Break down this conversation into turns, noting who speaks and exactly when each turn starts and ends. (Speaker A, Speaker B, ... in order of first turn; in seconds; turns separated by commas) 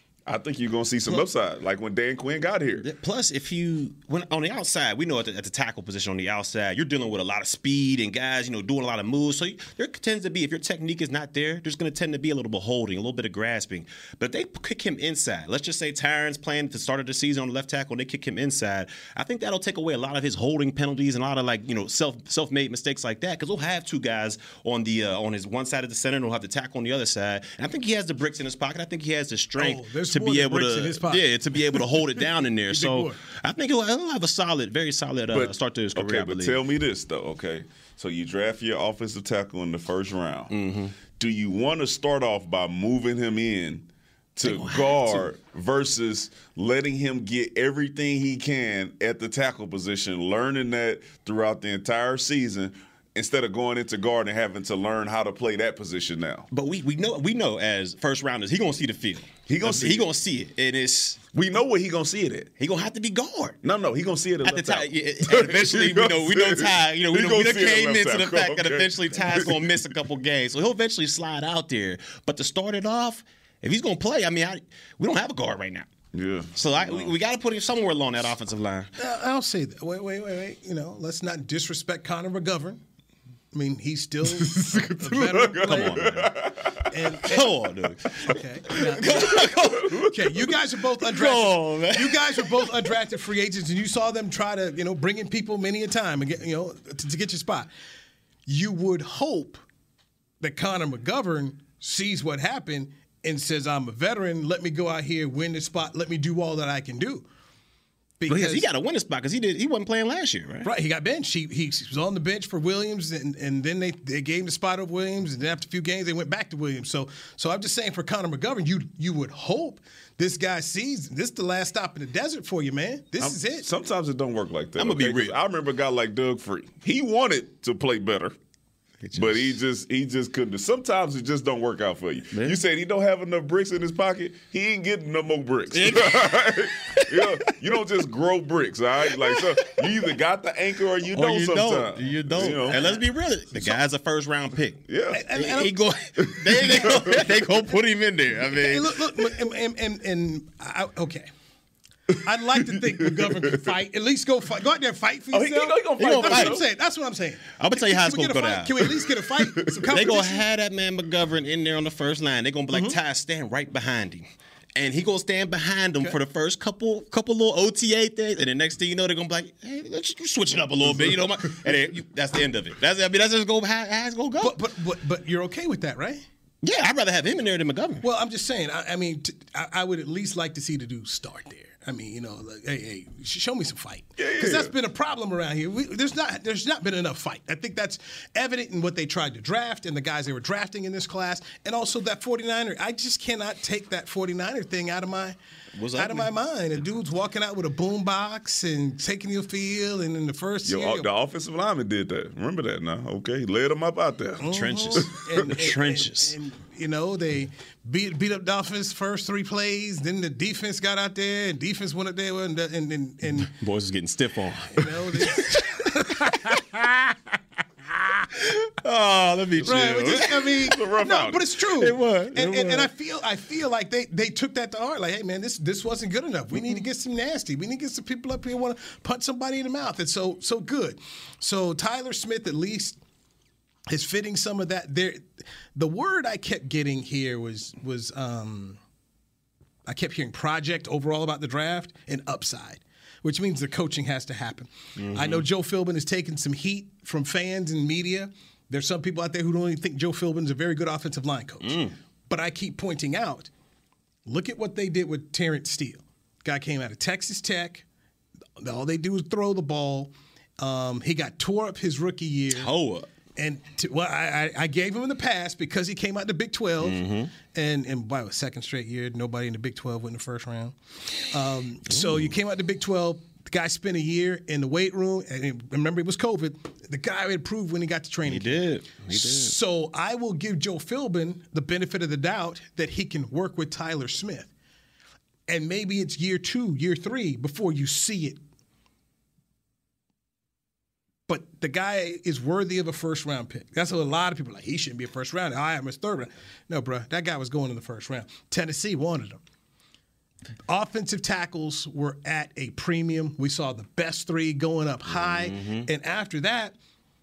Speaker A: 0.3-2.9, Speaker B: 2.8-36.6, Speaker C: 29.6-31.8, Speaker C: 32.7-33.2, Speaker A: 35.3-40.5, Speaker B: 40.5-40.9, Speaker A: 41.1-56.5, Speaker B: 44.4-45.3, Speaker B: 56.5-61.2, Speaker A: 59.5-60.1, Speaker A: 61.3-62.5, Speaker B: 62.6-63.6, Speaker A: 63.6-69.8, Speaker B: 64.4-75.9, Speaker A: 76.1-77.1, Speaker B: 76.5-78.9, Speaker C: 79.0-82.8, Speaker C: 83.5-86.1, Speaker A: 84.2-87.1, Speaker B: 85.6-86.3, Speaker C: 86.9-87.6, Speaker B: 87.2-90.0, Speaker C: 88.2-97.7, Speaker A: 89.0-90.3, Speaker B: 91.0-92.5, Speaker C: 98.5-99.6, Speaker C: 100.4-107.2, Speaker C: 108.2-108.7, Speaker B: 108.3-110.7, Speaker C: 110.6-123.7, Speaker A: 123.2-128.3, Speaker B: 124.8-125.4, Speaker B: 129.0-129.6, Speaker A: 129.1-142.9, Speaker B: 132.3-132.6, Speaker B: 135.7-137.8, Speaker B: 139.2-139.9, Speaker B: 141.1-149.0, Speaker A: 144.9-145.3, Speaker C: 145.1-145.8, Speaker A: 146.2-147.3, Speaker C: 146.5-147.2, Speaker C: 148.5-151.3, Speaker C: 152.2-160.4, Speaker A: 152.6-153.6, Speaker A: 155.3-156.7, Speaker B: 156.0-156.6, Speaker B: 157.6-158.9, Speaker B: 159.9-174.6, Speaker C: 162.7-163.0, Speaker C: 174.4-176.2, Speaker B: 176.6-178.0, Speaker C: 178.0-195.3, Speaker A: 184.2-184.7, Speaker B: 195.8-196.3, Speaker C: 195.9-201.1, Speaker A: 200.6-205.4, Speaker C: 204.4-213.5, Speaker B: 204.5-206.3, Speaker B: 213.4-215.5, Speaker C: 214.7-216.8, Speaker B: 218.3-220.5, Speaker C: 219.6-233.0, Speaker A: 219.6-221.4, Speaker B: 221.8-222.9, Speaker C: 233.9-238.8, Speaker C: 239.8-253.5, Speaker B: 245.0-245.4, Speaker B: 251.6-251.9, Speaker C: 254.2-257.8, Speaker C: 258.6-262.7, Speaker B: 262.5-263.1, Speaker C: 263.4-270.7, Speaker B: 266.8-267.3, Speaker C: 271.3-284.5, Speaker B: 271.9-272.3, Speaker B: 278.2-279.5, Speaker C: 285.5-288.4, Speaker C: 291.3-299.4, Speaker C: 300.7-306.7, Speaker B: 305.1-305.9